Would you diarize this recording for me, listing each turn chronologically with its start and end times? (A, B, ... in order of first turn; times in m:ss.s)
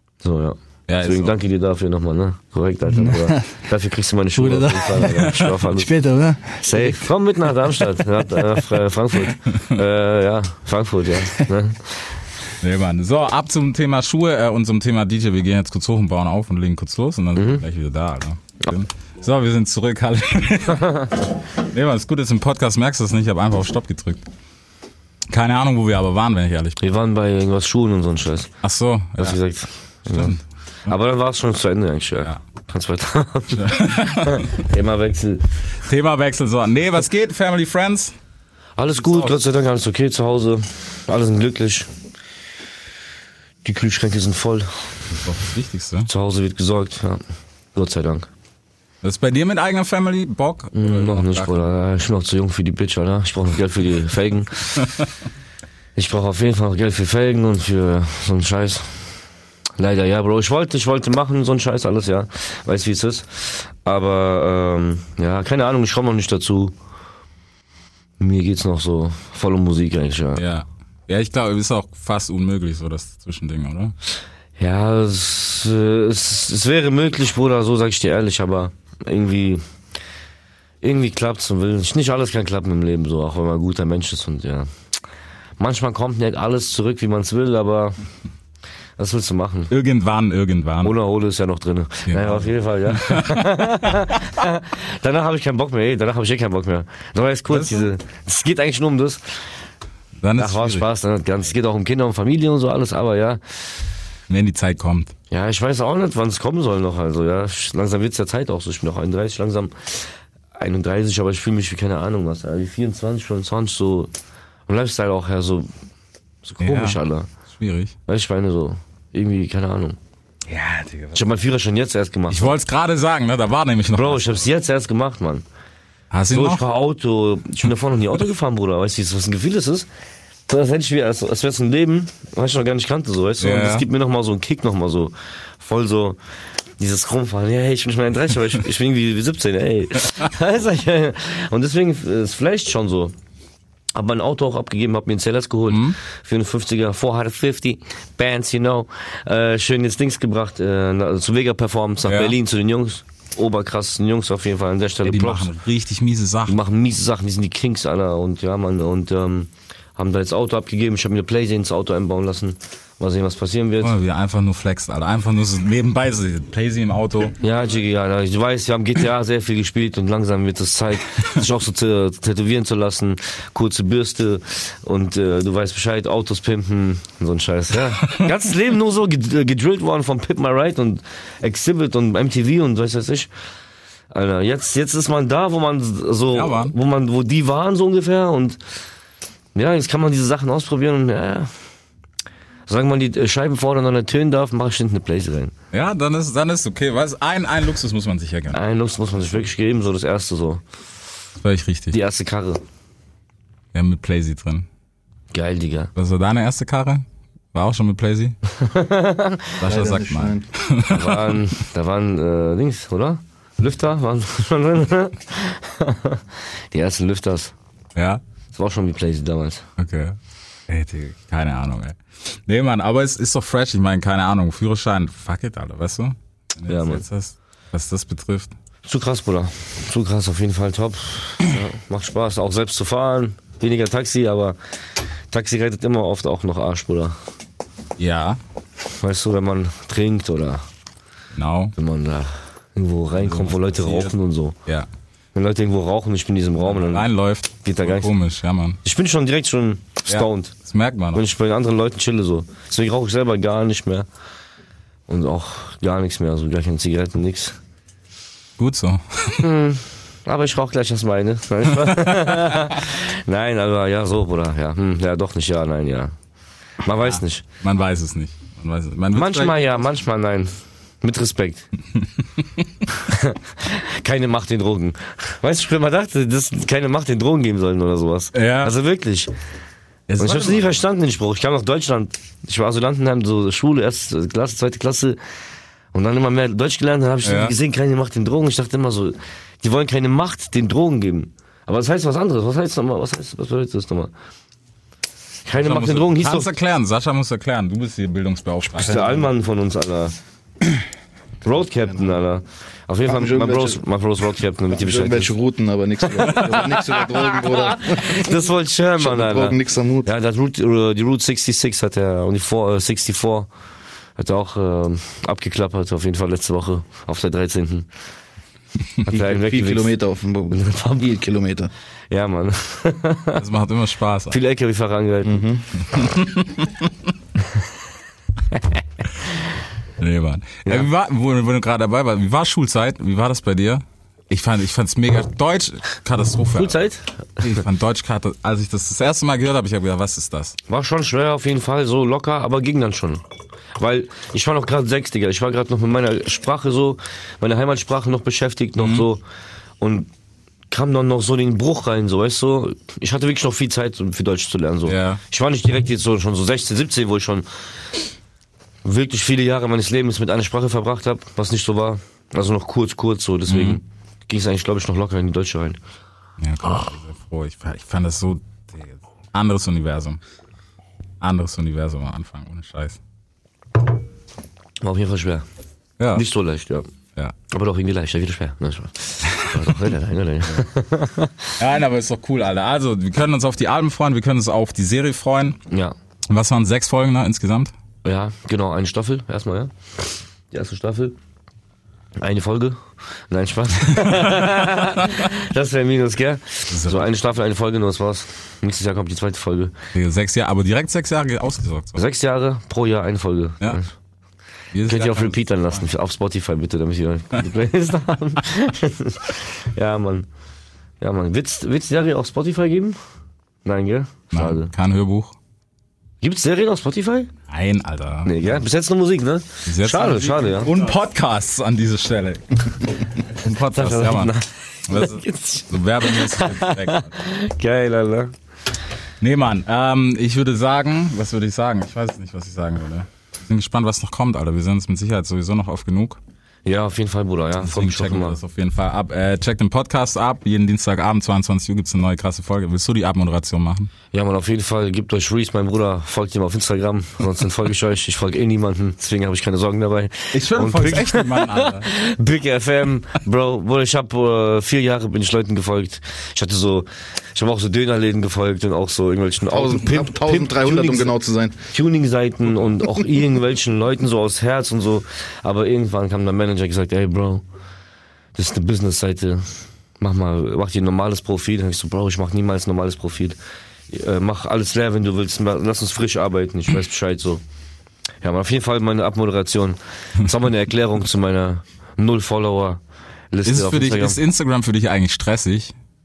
0:00.2-0:05.9 A
0:00.9-0:01.4 B
0:02.9-0:03.5 C
0:04.4-0:07.0 C
0:06.6-0:12.0 A
0:12.6-0:24.2 B
0:17.4-0:17.6 A
0:25.3-0:26.8 B
0:26.8-0:28.5 A
0:28.6-0:29.4 B
0:29.2-0:35.5 A
0:30.1-0:30.9 B
0:33.5-0:34.5 B
0:35.8-0:38.1 B
0:38.8-0:41.9 A
0:39.0-0:39.3 B
0:43.6-0:45.1 A
0:45.1-0:46.1 B
0:46.0-0:47.2 A
0:47.7-0:48.3 A
0:49.0-0:51.6 B
0:50.7-0:54.9 A
0:56.0-0:59.0 A
0:59.8-1:06.7 A
1:08.2-1:10.4 A
1:10.4-1:13.9 B
1:14.6-1:19.6 A
1:20.8-1:24.7 A
1:25.6-1:28.0 A
1:29.0-1:29.7 A
1:29.7-1:30.9 B
1:30.8-1:39.4 A
1:32.1-1:34.2 B
1:37.5-1:37.9 B
1:40.2-1:40.9 B
1:40.4-1:43.4 A
1:44.3-1:45.1 B
1:45.3-1:54.1 A
1:54.7-1:55.7 A
1:56.4-1:57.3 A
1:56.6-1:57.0 B
1:57.5-1:57.9 B
1:58.0-2:00.0 A
2:00.5-2:01.2 B
2:01.1-2:02.6 A
2:02.3-2:04.4 B
2:03.9-2:05.4 A
2:06.1-2:06.6 B
2:06.3-2:09.9 A
2:10.5-2:16.2 A
2:13.4-2:13.8 B
2:16.8-2:23.1 A
2:23.9-2:35.5 A
2:25.7-2:26.0 B
2:32.0-2:32.4 B
2:35.0-2:36.6 B
2:36.5-2:43.9 A
2:43.8-2:47.4 B
2:47.4-3:03.3 A
3:04.1-3:08.6 A
3:06.3-3:06.7 B
3:09.5-3:11.5 A
3:12.7-3:15.5 A
3:15.7-3:18.6 B
3:18.5-3:20.6 A
3:21.4-3:22.0 B
3:21.9-3:22.6 A
3:23.7-3:24.7 B
3:25.3-3:25.9 A
3:25.9-3:28.4 B
3:28.6-3:29.6 A
3:29.6-3:31.5 B
3:29.7-3:30.4 D
3:30.8-3:37.5 A
3:37.9-3:38.2 B
3:38.5-3:39.7 A
3:39.8-3:48.5 B
3:46.7-3:47.0 A
3:48.8-3:54.6 A
3:55.3-3:57.2 A
3:58.0-3:58.4 B
3:59.0-4:00.6 A
4:01.3-4:01.7 B
4:01.8-4:04.6 A
4:03.2-4:04.1 B
4:05.3-4:07.1 A
4:06.6-4:08.8 B
4:07.6-4:08.1 A
4:08.8-4:10.5 A
4:10.1-4:11.2 B
4:11.1-4:14.1 A
4:15.1-4:17.6 A
4:18.6-4:19.5 B
4:19.4-4:26.1 A
4:21.8-4:22.6 B
4:26.8-4:27.4 A
4:27.0-4:29.9 B
4:29.1-4:31.7 A
4:33.0-4:39.3 A
4:38.3-4:38.7 B
4:40.1-4:40.7 B
4:40.2-4:45.2 A
4:45.9-4:54.1 A
4:47.2-4:47.5 B
4:55.4-4:56.5 A
4:55.6-4:59.3 B
4:58.8-5:00.1 A
5:01.4-5:05.4 A
5:03.1-5:03.8 D
5:04.8-5:08.2 D
5:06.0-5:13.5 A
5:06.2-5:06.9 B
5:09.0-5:10.0 D
5:14.2-5:17.9 A
5:19.0-5:21.3 A
5:19.1-5:20.6 D
5:21.2-5:21.7 D
5:22.1-5:23.4 A
5:23.4-5:24.4 B
5:24.3-5:25.6 A
5:25.9-5:26.9 B
5:30.0-5:36.9 B
5:36.5-5:37.4 A
5:37.4-5:40.6 B
5:40.7-5:43.2 A
5:43.8-5:49.2 A
5:48.8-5:49.1 B
5:49.8-5:50.1 A
5:50.7-5:57.5 A
5:54.8-5:55.2 B
5:58.8-6:05.8 A
6:03.5-6:03.8 B
6:06.4-6:10.2 B
6:11.2-6:13.0 B
6:14.8-6:15.4 A
6:16.0-6:16.2 B
6:16.1-6:16.9 A
6:17.5-6:21.5 A
6:19.2-6:19.9 B
6:21.6-6:25.6 B
6:25.7-6:25.9 A
6:26.3-6:27.7 B
6:28.0-6:31.2 A
6:32.2-6:39.7 A
6:34.0-6:34.9 B
6:36.7-6:37.1 B
6:39.9-6:42.0 B
6:42.0-6:43.9 A
6:44.7-6:45.8 B
6:44.8-6:50.3 A
6:51.0-6:53.0 A
6:53.6-6:54.7 A
6:54.3-6:55.4 B
6:56.2-6:57.3 A
6:57.5-6:58.6 B
6:58.2-7:00.8 A
6:59.6-7:04.3 B
7:03.7-7:08.3 A
7:04.9-7:07.1 B
7:09.2-7:16.2 B
7:16.6-7:18.4 A
7:17.6-7:23.9 B
7:24.1-7:47.4 A
7:30.3-7:31.9 B
7:39.5-7:41.6 D
7:48.3-7:53.4 A
7:53.9-7:57.4 A
7:58.2-8:02.8 A
8:03.3-8:04.2 A
8:03.4-8:05.7 B